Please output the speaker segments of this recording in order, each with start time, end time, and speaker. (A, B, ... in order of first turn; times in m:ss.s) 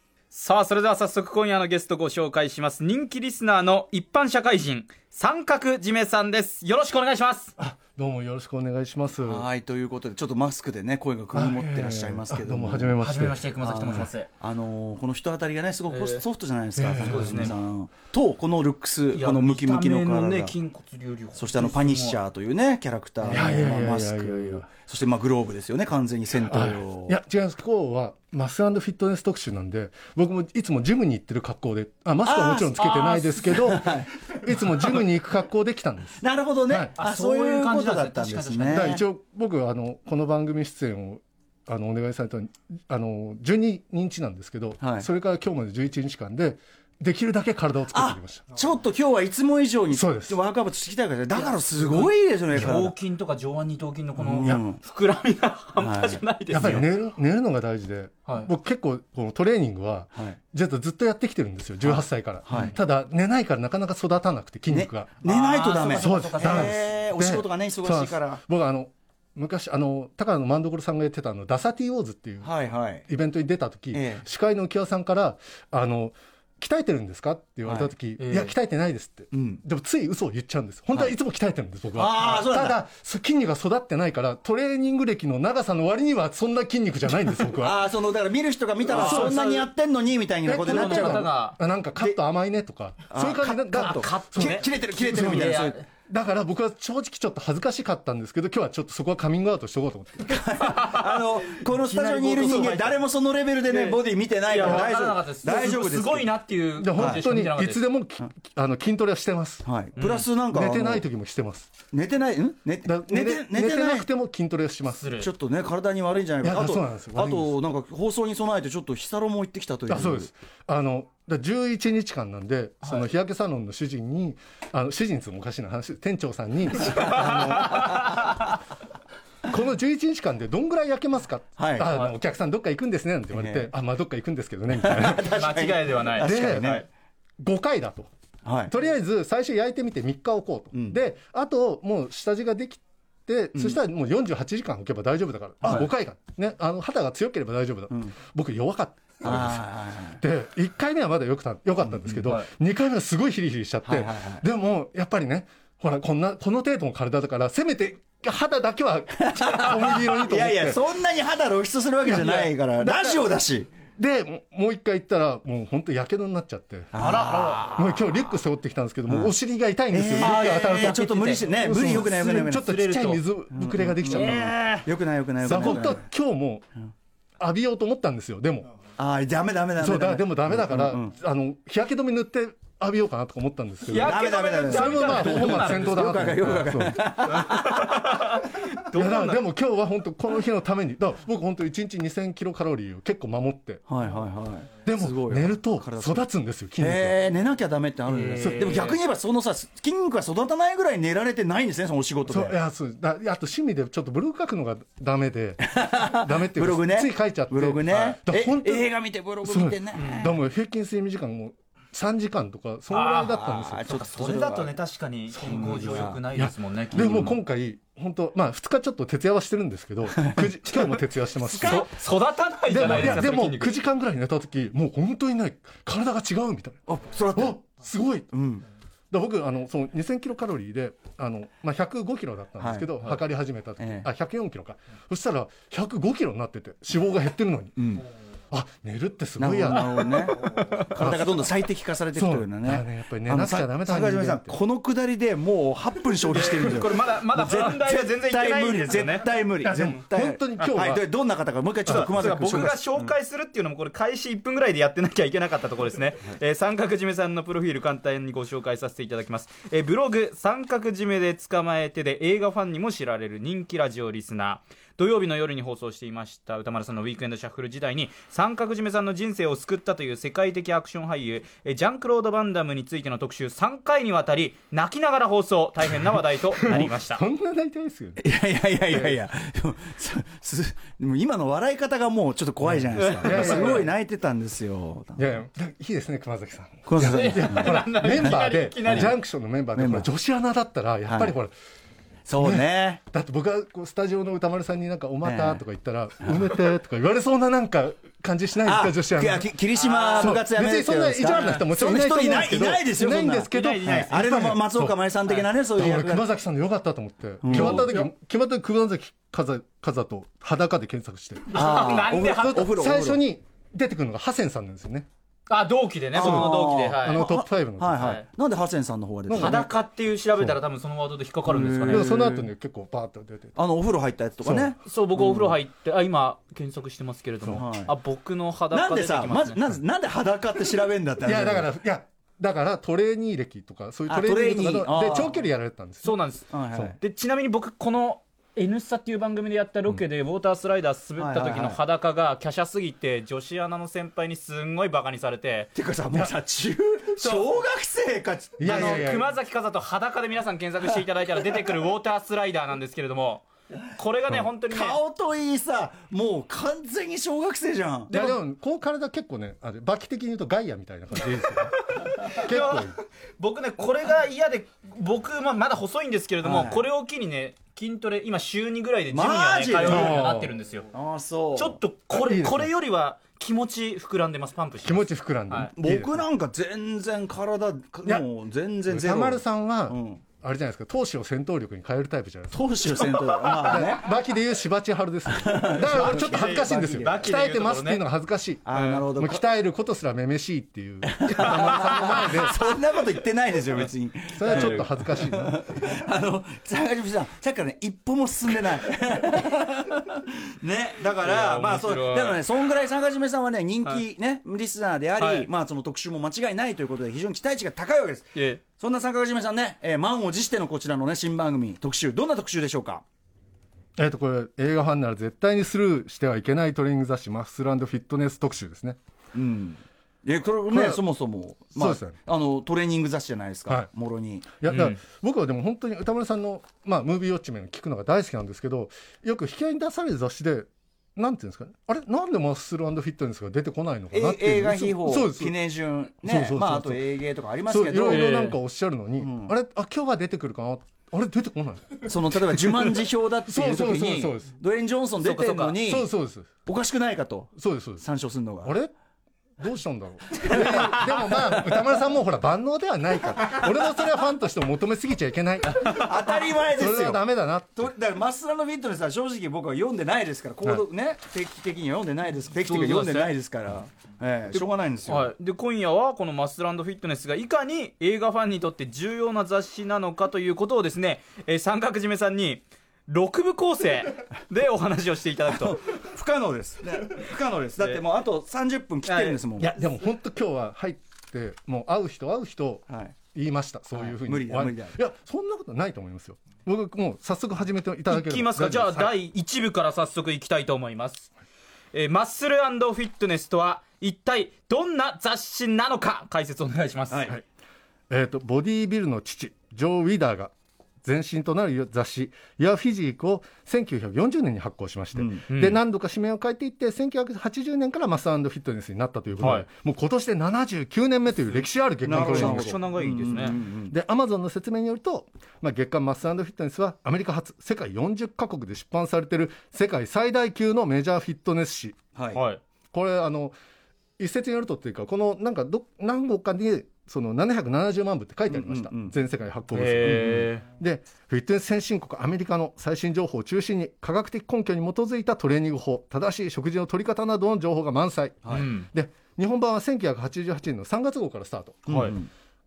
0:00.3-0:07.5 A
0:07.6-0:09.5 B
0:09.2-0:13.0 C
0:11.3-0:14.0 B
0:13.0-0:14.3 A
0:13.6-0:20.5 C
0:15.9-0:16.2 A
0:16.8-0:17.5 B
0:17.0-0:17.5 A
0:19.1-0:22.2 A
0:21.4-0:27.2 C
0:23.2-0:24.6 B
0:23.3-0:23.6 A
0:26.4-0:36.9 B
0:32.2-0:35.0 C
0:36.2-0:39.0 C
0:37.0-0:39.0 A
0:38.7-0:48.4 B
0:44.8-0:45.1 C
0:47.9-0:53.0 C
0:49.9-0:50.4 B
0:51.3-0:56.9 A
0:54.2-0:54.8 C
0:55.8-0:56.8 C
0:56.5-1:05.2 B
1:01.8-1:02.8 C
1:02.5-1:02.8 A
1:04.7-1:08.4 C
1:05.2-1:06.8 A
1:05.9-1:12.5 B
1:12.4-1:13.0 C
1:13.1-1:27.8 B
1:13.9-1:14.2 C
1:17.6-1:17.9 C
1:18.2-1:18.5 A
1:19.3-1:19.6 C
1:22.0-1:22.8 C
1:27.3-1:31.3 C
1:28.9-1:29.7 A
1:28.9-1:29.4 B
1:30.4-1:40.4 B
1:30.6-1:31.6 A
1:33.1-1:35.8 C
1:33.4-1:35.8 A
1:40.2-1:46.3 C
1:40.6-1:43.0 A
1:43.7-1:47.8 A
1:46.8-1:49.6 B
1:47.0-1:47.2 C
1:49.6-1:51.0 C
1:50.0-1:50.3 A
1:50.5-1:51.7 B
1:51.9-1:54.1 C
1:52.8-1:55.1 B
1:54.9-1:55.3 A
1:55.2-2:00.3 C
1:56.4-1:57.5 B
1:59.9-2:08.3 B
2:06.8-2:08.6 A
2:07.7-2:08.1 C
2:09.5-2:15.4 B
2:11.6-2:11.9 C
2:13.3-2:13.7 C
2:14.7-2:16.8 C
2:15.2-2:16.8 A
2:16.2-2:16.8 B
2:17.4-2:18.1 B
2:18.4-2:18.7 C
2:18.7-2:29.6 B
2:20.7-2:21.0 C
2:27.9-2:28.1 C
2:29.2-2:30.2 C
2:30.2-2:40.8 B
2:32.0-2:32.3 C
2:33.8-2:34.4 C
2:39.2-2:43.7 C
2:42.0-2:43.2 B
2:44.0-2:46.9 B
2:46.9-2:48.1 C
2:46.9-2:47.7 A
2:47.7-2:54.6 B
2:49.1-2:49.3 C
2:49.9-2:52.9 C
2:50.2-2:51.9 A
2:52.6-2:53.2 A
2:53.5-2:56.0 C
2:54.0-2:54.9 A
2:55.4-2:56.7 B
2:57.4-2:58.7 B
2:59.0-3:01.1 C
2:59.8-3:07.0 B
3:03.9-3:06.7 A
3:03.9-3:08.1 C
3:07.2-3:09.4 A
3:08.9-3:13.8 B
3:13.9-3:16.2 C
3:14.8-3:17.2 B
3:16.8-3:22.6 C
3:18.1-3:19.0 A
3:18.4-3:19.0 B
3:22.3-3:28.9 B
3:25.6-3:30.3 C
3:27.9-3:28.2 A
3:29.4-3:34.0 B
3:29.9-3:30.3 A
3:32.9-3:37.4 A
3:33.0-3:34.7 C
3:35.3-3:41.9 B
3:35.4-3:36.2 C
3:40.2-3:41.9 C
3:41.6-3:43.8 A
3:42.7-3:48.3 B
3:42.9-3:43.2 C
3:46.9-3:47.6 C
3:48.3-3:48.6 C
3:49.1-3:57.8 B
3:52.6-3:53.1 C
3:53.8-3:54.1 C
3:57.8-3:58.0 C
3:58.5-4:00.3 B
3:59.4-4:13.1 C
4:00.1-4:01.1 A
4:00.9-4:01.4 B
4:02.1-4:04.5 B
4:06.3-4:10.0 A
4:09.6-4:11.0 B
4:11.9-4:37.2 A
4:11.9-4:12.7 B
4:36.6-4:39.2 B
4:38.2-4:45.3 C
4:42.7-4:43.9 B
4:43.0-4:43.9 A
4:45.2-4:51.5 B
4:46.8-4:48.3 C
4:47.0-4:49.1 A
4:48.8-4:49.1 C
4:49.7-4:50.1 C
4:51.0-4:51.3 C
4:52.3-4:53.0 C
4:52.4-4:59.5 B
4:55.2-4:55.6 C
4:58.6-5:06.3 C
4:59.8-5:00.4 A
5:00.2-5:05.0 B
5:01.3-5:01.6 A
5:03.5-5:04.4 A
5:05.7-5:11.6 B
5:07.4-5:08.0 C
5:07.5-5:08.1 A
5:11.5-5:12.7 A
5:11.5-5:13.2 C
5:12.3-5:15.1 B
5:15.5-5:17.3 A
5:16.1-5:19.7 C
5:16.2-5:18.2 B
5:18.0-5:18.2 A
5:19.3-5:19.7 B
5:19.3-5:22.1 A
5:21.5-5:22.5 C
5:21.9-5:23.6 B
5:23.6-5:25.6 C
5:24.4-5:24.7 B
5:24.8-5:29.6 A
5:27.6-5:27.9 C
5:28.7-5:31.7 C
5:31.2-5:36.2 B
5:34.1-5:35.4 C
5:36.0-5:36.5 A
5:36.5-5:37.0 C
5:37.0-5:45.7 A
5:41.2-5:41.8 C
5:45.7-5:49.0 C
5:47.2-5:47.5 A
5:48.6-5:49.3 B
5:48.6-5:55.0 A
5:54.7-5:58.1 C
5:58.1-5:58.4 A
5:58.1-6:03.0 B
6:01.8-6:10.9 A
6:06.4-6:06.9 C
6:09.1-6:10.2 C
6:09.8-6:10.5 B
6:10.9-6:11.8 C
6:11.6-6:15.7 A
6:12.1-6:12.7 B
6:14.8-6:16.2 B
6:15.8-6:20.2 C
6:18.9-6:32.7 B
6:22.5-6:24.1 C
6:25.3-6:27.3 C
6:25.8-6:28.0 A
6:28.6-6:29.4 C
6:28.7-6:29.0 A
6:31.1-6:53.0 C
6:31.2-6:32.7 A
6:34.3-6:35.6 B
6:34.4-6:34.9 A
6:41.2-6:42.4 A
6:45.2-6:45.5 A
6:48.3-6:48.6 A
6:54.0-6:59.0 B
6:59.3-7:04.6 C
7:00.7-7:01.0 B
7:01.8-7:02.2 B
7:04.6-7:15.5 B
7:04.6-7:05.0 A
7:14.1-7:18.4 C
7:16.2-7:17.0 B
7:17.7-7:24.5 B
7:18.0-7:18.6 A
7:19.2-7:19.5 C
7:22.0-7:26.1 C
7:25.2-7:25.8 A
7:25.8-7:26.5 B
7:26.6-7:28.7 C
7:27.6-7:28.0 B
7:28.6-7:28.9 B
7:29.6-7:36.0 B
7:30.4-7:31.4 C
7:35.7-7:37.2 C
7:35.7-7:36.1 A
7:36.6-7:37.9 B
7:37.8-7:45.3 C
7:42.6-7:43.3 A
7:44.5-7:55.8 A
7:55.5-7:59.8 C
7:59.0-7:59.4 A
7:59.6-8:09.1 B
8:02.9-8:03.2 C
8:04.0-8:05.0 C
8:08.1-8:11.3 A
8:11.9-8:17.3 A
8:17.1-8:17.4 C
8:18.1-8:32.8 B
8:25.1-8:25.4 C
8:25.5-8:25.8 A
8:29.4-8:29.7 A
8:32.0-8:33.9 C
8:32.1-8:33.6 A
8:33.9-8:42.0 B
8:42.1-8:42.4 C
8:42.3-8:42.6 A
8:42.9-8:43.5 B
8:44.2-9:01.8 B
8:48.5-8:49.1 C
8:49.7-8:50.6 A
8:58.4-8:58.7 C
8:58.5-8:58.9 A
9:01.8-9:02.3 C
9:01.9-9:02.2 A